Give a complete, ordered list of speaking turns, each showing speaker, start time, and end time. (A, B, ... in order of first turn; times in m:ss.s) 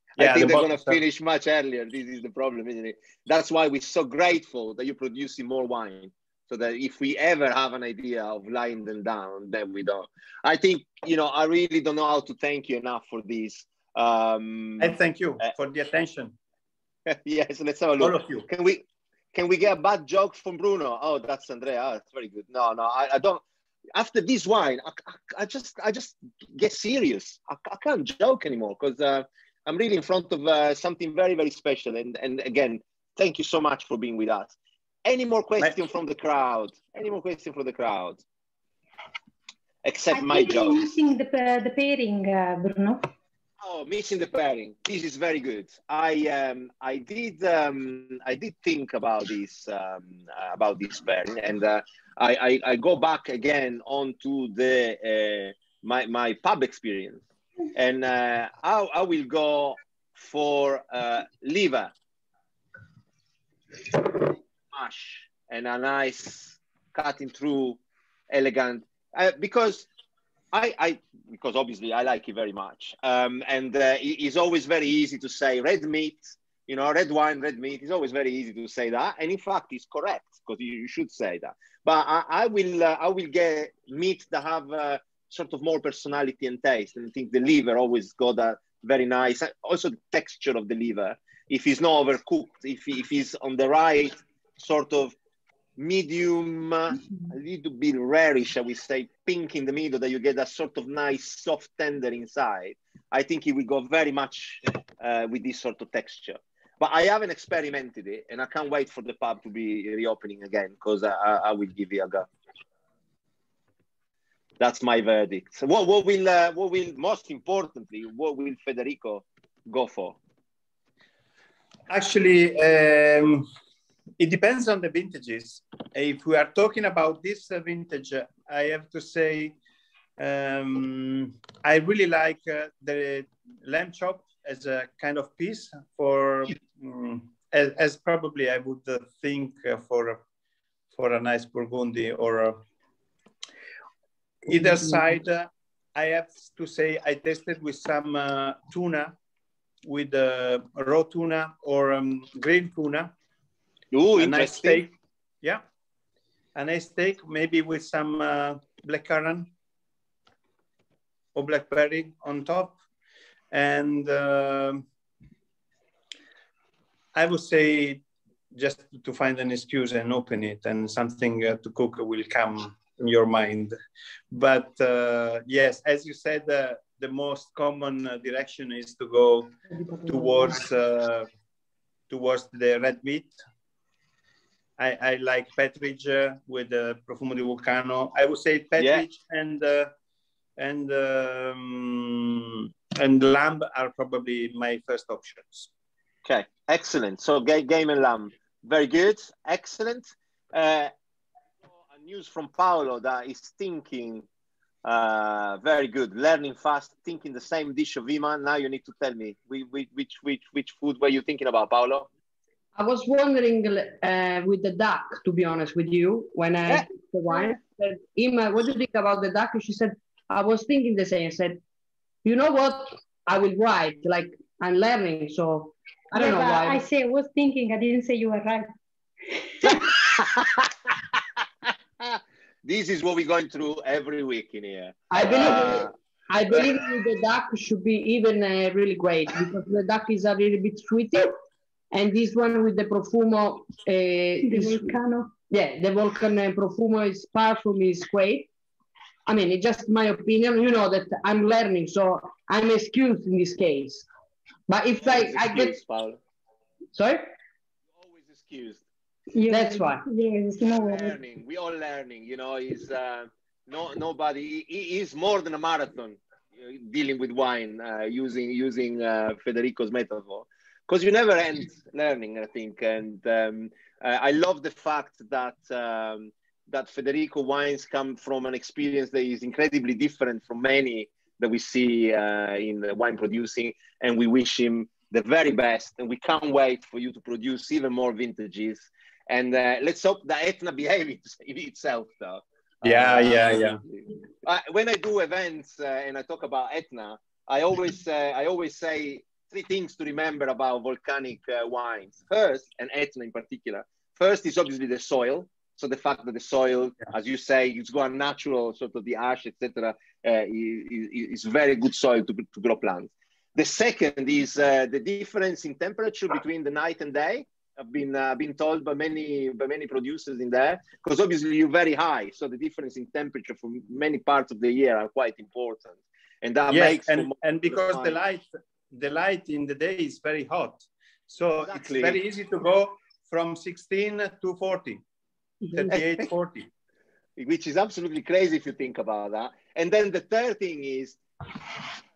0:00.2-0:15.5 A
0:00.2-0:01.0 B
0:14.8-0:16.4 B
0:17.1-0:23.4 A
0:18.0-0:18.5 B
0:24.0-0:38.2 A
0:39.8-0:40.8 A
0:40.1-0:43.0 C
0:43.6-0:57.2 A
0:57.8-1:01.9 A
1:03.8-1:07.8 A
1:08.3-1:09.9 A
1:10.5-1:35.2 A
1:35.8-1:52.3 A
1:54.6-2:00.2 A
2:01.9-2:03.5 B
2:04.2-2:09.6 B
2:10.2-2:20.2 B
2:20.9-2:22.6 B
2:24.5-2:29.2 B
2:29.8-2:33.1 B
2:33.9-2:34.8 A
2:34.2-2:35.6 B
2:36.6-2:39.5 B
2:41.4-2:42.8 B
2:43.5-2:44.8 B
2:47.1-2:53.8 B
2:54.3-3:01.3 B
2:59.9-3:00.5 D
3:02.1-3:03.4 B
3:04.8-3:09.9 B
3:08.8-3:09.0 A
3:10.6-3:15.7 B
3:16.2-3:20.9 A
3:21.9-3:24.3 A
3:24.8-3:32.1 A
3:32.8-3:41.6 D
3:42.2-3:46.8 D
3:46.2-3:48.7 C
3:49.8-3:50.7 A
3:52.0-3:55.9 A
3:55.1-4:01.4 D
4:01.9-4:05.0 D
4:04.4-4:05.3 C
4:05.5-4:08.5 D
4:09.3-4:14.1 D
4:14.7-4:15.8 D
4:15.0-4:16.2 A
4:16.9-4:17.3 D
4:18.0-4:18.8 A
4:19.3-4:21.2 C
4:19.5-4:20.0 D
4:20.7-5:28.2 A
4:52.8-4:53.8 B
5:26.7-5:35.0 B
5:31.6-5:32.2 A
5:35.7-5:36.7 B
5:35.9-5:36.3 A
5:37.4-5:41.2 A